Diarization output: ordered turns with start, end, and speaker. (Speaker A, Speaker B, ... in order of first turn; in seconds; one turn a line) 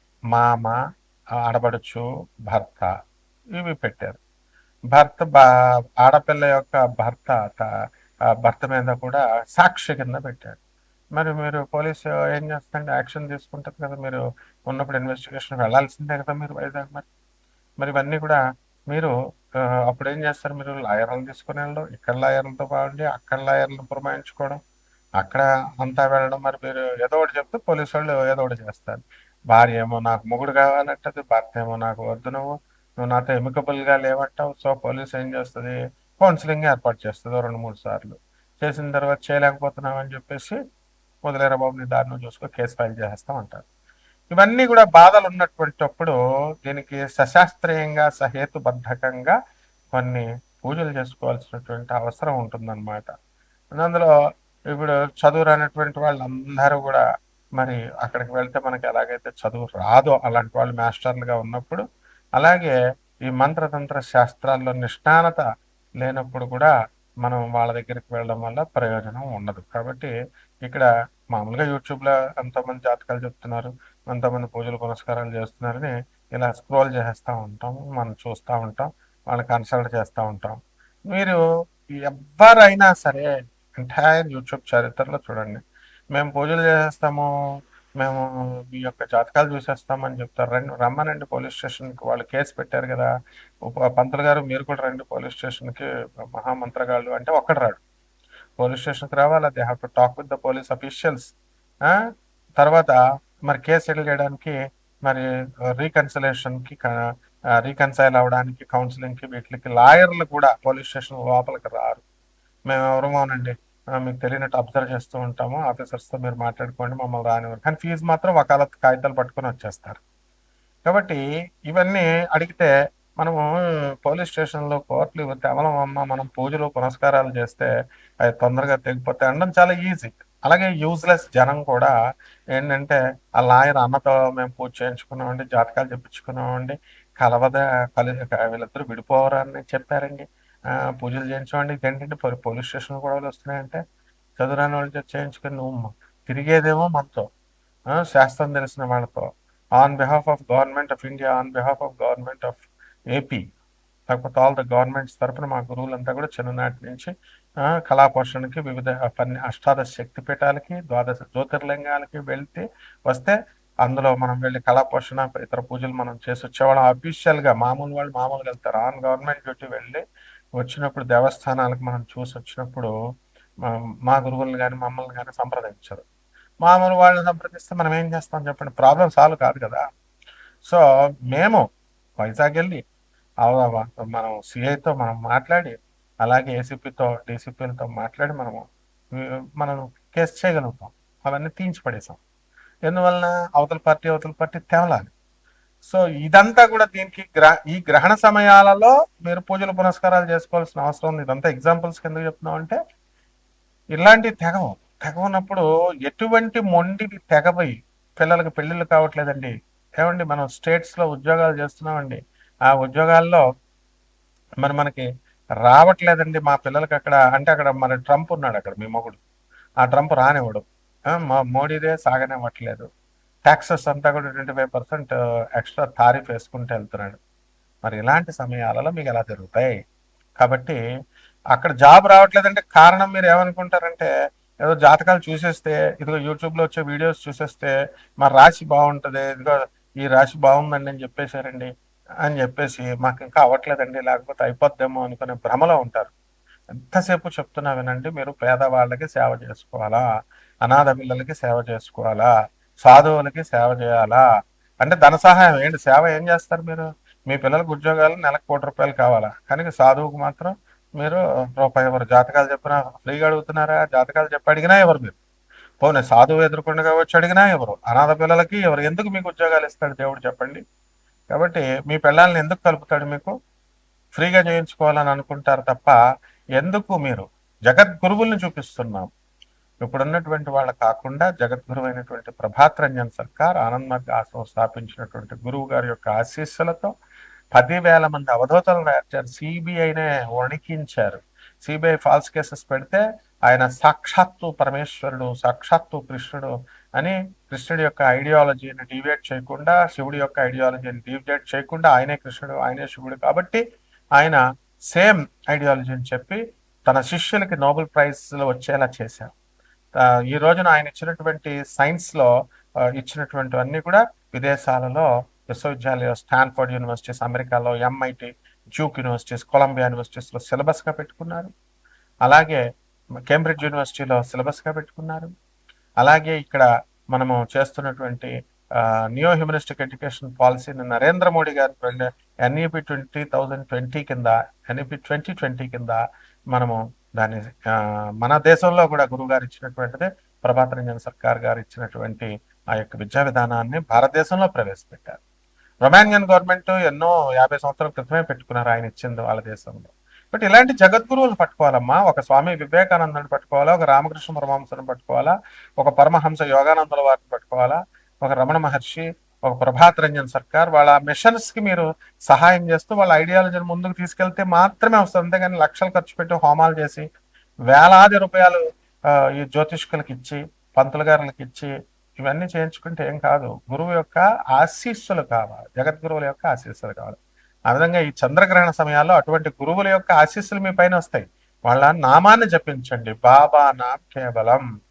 Speaker A: 0.3-0.8
Speaker A: 1.4-2.9
Speaker A: 3.6-4.2
Speaker A: 4.9-5.5
Speaker A: 6.0-7.7
Speaker A: 8.4-10.6
Speaker A: 11.2-17.1
Speaker A: 17.8-18.4
Speaker A: 19.9-24.6
Speaker A: 25.2-40.6
Speaker A: 41.2-43.6
Speaker A: 44.3-49.4
Speaker A: 49.9-53.1
Speaker A: 53.8-54.1
Speaker A: 54.7-57.0
Speaker A: 57.6-61.8
Speaker A: 62.4-62.7
Speaker A: 63.3-65.5
Speaker A: 66.0-66.7
Speaker A: 67.2-70.1
Speaker A: 70.7-80.6
Speaker A: 81.1-81.4
Speaker A: 82.0-85.6
Speaker A: 86.1-87.3
Speaker A: 88.0-93.1
Speaker A: 93.7-97.8
Speaker A: 98.6-101.3
Speaker A: 102.6-107.0
Speaker A: 107.6-112.0
Speaker A: 112.7-120.0
Speaker A: 120.9-123.4
Speaker A: 124.0-127.7
Speaker A: 128.3-131.9
Speaker A: 132.6-140.3
Speaker A: 140.9-143.8
Speaker A: 144.4-147.3
Speaker A: 147.9-153.4
Speaker A: 154.1-157.1
Speaker A: 157.7-170.0
Speaker A: 170.6-172.9
Speaker A: 173.7-176.0
Speaker A: 176.6-179.8
Speaker A: 180.7-181.6
Speaker A: 182.2-182.8
Speaker A: 183.4-188.6
Speaker A: 189.2-192.2
Speaker A: 192.9-195.1
Speaker A: 195.8-202.8
Speaker A: 204.0-212.2
Speaker A: 212.7-213.4
Speaker A: 214.6-215.1
Speaker A: 215.7-219.2
Speaker A: 219.8-222.9
Speaker A: 223.5-227.2
Speaker A: 227.8-229.8
Speaker A: 230.4-230.8
Speaker A: 231.5-234.1
Speaker A: 234.7-241.7
Speaker A: 242.2-246.1
Speaker A: 246.8-250.0
Speaker A: 250.7-252.3
Speaker A: 252.8-254.2
Speaker A: 254.8-265.2
Speaker A: 265.8-270.6
Speaker A: 271.3-273.4
Speaker A: 274.1-276.0
Speaker A: 276.6-279.1
Speaker A: 279.9-286.9
Speaker A: 287.6-303.6
Speaker A: 304.9-309.3
Speaker A: 310.0-312.3
Speaker A: 313.0-321.5
Speaker A: 322.3-322.6
Speaker A: 323.3-325.3
Speaker A: 326.0-336.0
Speaker A: 336.5-345.2
Speaker A: 345.9-367.1
Speaker A: 367.7-371.7
Speaker A: 372.2-377.2
Speaker A: 377.7-384.6